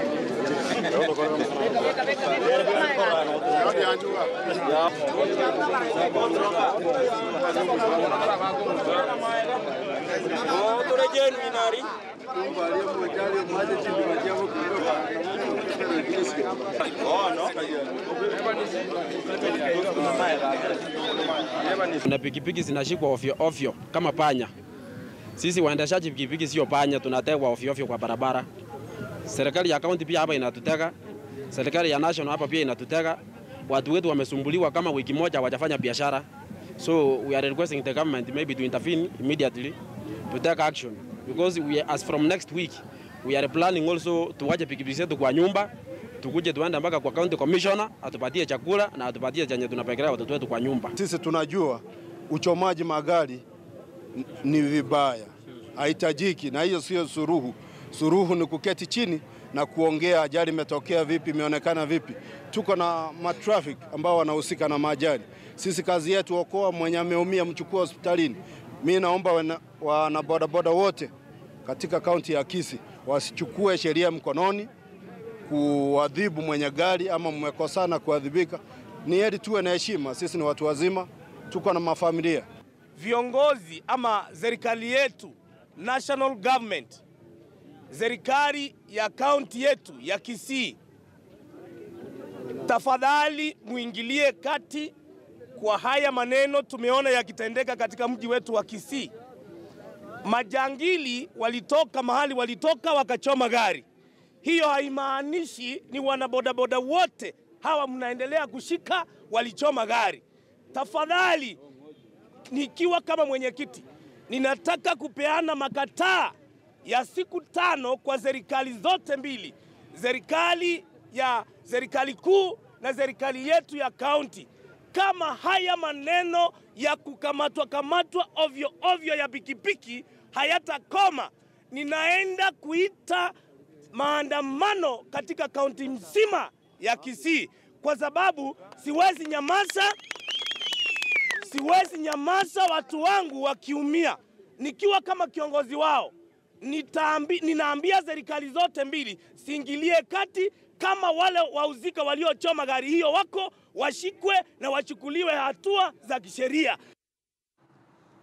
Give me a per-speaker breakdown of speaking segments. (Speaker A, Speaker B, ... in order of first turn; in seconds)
Speaker A: 3.5-4.2, 12.4-15.0, 15.6-16.5, 51.0-53.4, 54.1-71.1, 71.6-74.7, 75.5-82.5
Speaker B: 10.3-11.9, 22.0-24.5, 25.4-28.5, 29.2-30.9, 31.5-36.2, 36.8-39.8, 40.3-45.7, 46.2-50.9
Speaker C: 16.9-17.6, 19.9-20.5, 82.9-87.0, 87.9-90.8, 92.7-94.9, 95.5-99.1, 100.2-103.8, 104.4-110.2, 110.7-111.6, 112.5-116.3, 116.8-133.3, 133.9-139.9, 141.4-156.8